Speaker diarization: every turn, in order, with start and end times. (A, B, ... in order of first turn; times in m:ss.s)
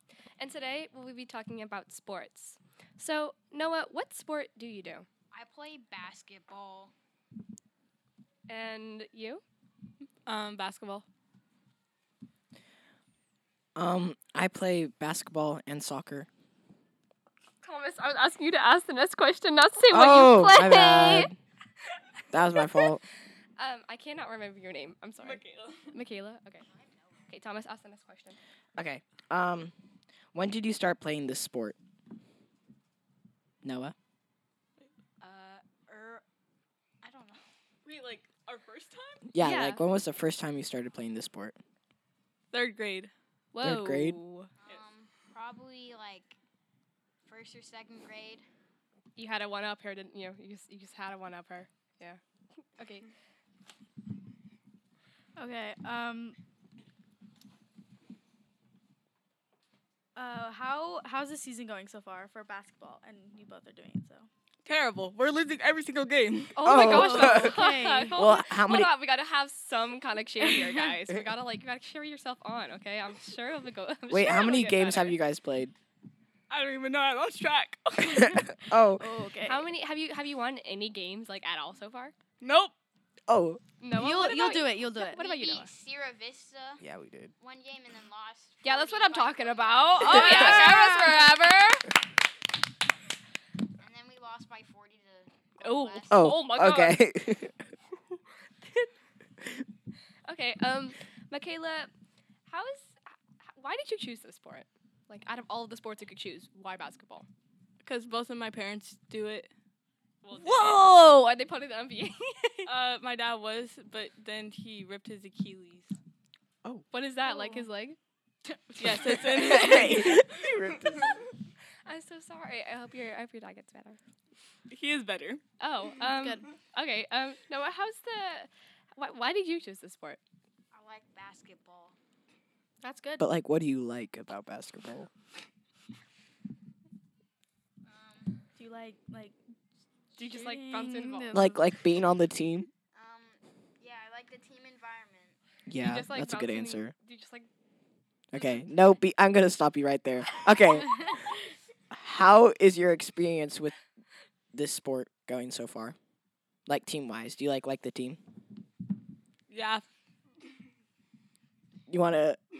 0:00.4-0:05.1 A
0:05.3-0:06.9 B
0:08.5-0:09.4 A
0:10.2-0:11.0 A
0:13.8-0:16.3 C
0:17.6-0:21.3 A
0:19.9-0:21.4 C
0:22.3-0:23.0 C
0:23.6-0:26.6 A
0:25.2-0:26.0 D
0:27.3-0:28.4 A
0:28.8-0:29.7 C
0:30.3-0:31.8 C
0:33.6-0:33.9 C
0:35.2-0:36.2 B
0:37.0-0:37.4 B
0:37.8-0:39.2 D
0:39.3-0:41.6 C
0:39.4-0:39.8 A
0:42.5-0:43.1 D
0:43.5-0:44.5 A
0:43.6-0:44.2 C
0:44.6-0:46.4 B
0:47.2-0:48.4 B
0:49.2-0:52.2 A
0:52.7-0:53.1 A
0:55.4-0:56.4 E
1:00.1-1:04.3 E
1:04.6-1:06.8 D
1:06.5-1:15.2 A
1:06.6-1:07.6 C
1:06.8-1:08.2 E
1:08.1-1:08.9 C
1:14.1-1:15.7 C
1:16.5-1:18.3 D
1:18.2-1:19.1 C
1:18.9-1:19.7 E
1:19.4-1:22.1 A
1:22.4-1:22.7 D
1:23.3-1:23.6 C
1:23.8-1:25.7 A
1:23.9-1:25.2 E
1:25.1-1:26.8 B
1:26.8-1:27.3 C
1:27.4-1:30.7 B
1:28.6-1:31.9 A
1:30.1-1:31.3 E
1:33.8-1:36.2 B
1:35.6-1:37.0 A
1:36.1-1:37.7 C
1:40.2-1:41.9 A
1:42.5-1:47.3 A
1:47.8-1:49.5 D
1:50.2-1:50.8 D
1:50.3-1:52.7 A
1:52.6-1:56.0 D
1:56.9-1:58.0 A
1:57.2-1:57.7 E
1:58.7-1:59.9 E
1:58.8-2:00.2 D
1:59.2-2:01.1 C
2:01.8-2:04.0 A
2:04.7-2:05.4 D
2:05.6-2:10.2 A
2:06.0-2:06.4 E
2:10.7-2:12.0 B
2:12.8-2:13.2 E
2:13.2-2:15.1 C
2:17.8-2:18.4 B
2:18.5-2:19.4 E
2:20.1-2:21.7 E
2:20.2-2:21.4 A
2:21.3-2:22.7 C
2:22.9-2:25.4 B
2:25.7-2:26.9 C
2:25.8-2:27.5 A
2:28.3-2:31.1 C
2:31.9-2:33.8 C
2:34.5-2:36.0 C
2:36.6-2:38.2 C
2:39.5-2:39.8 D
2:41.9-2:42.4 C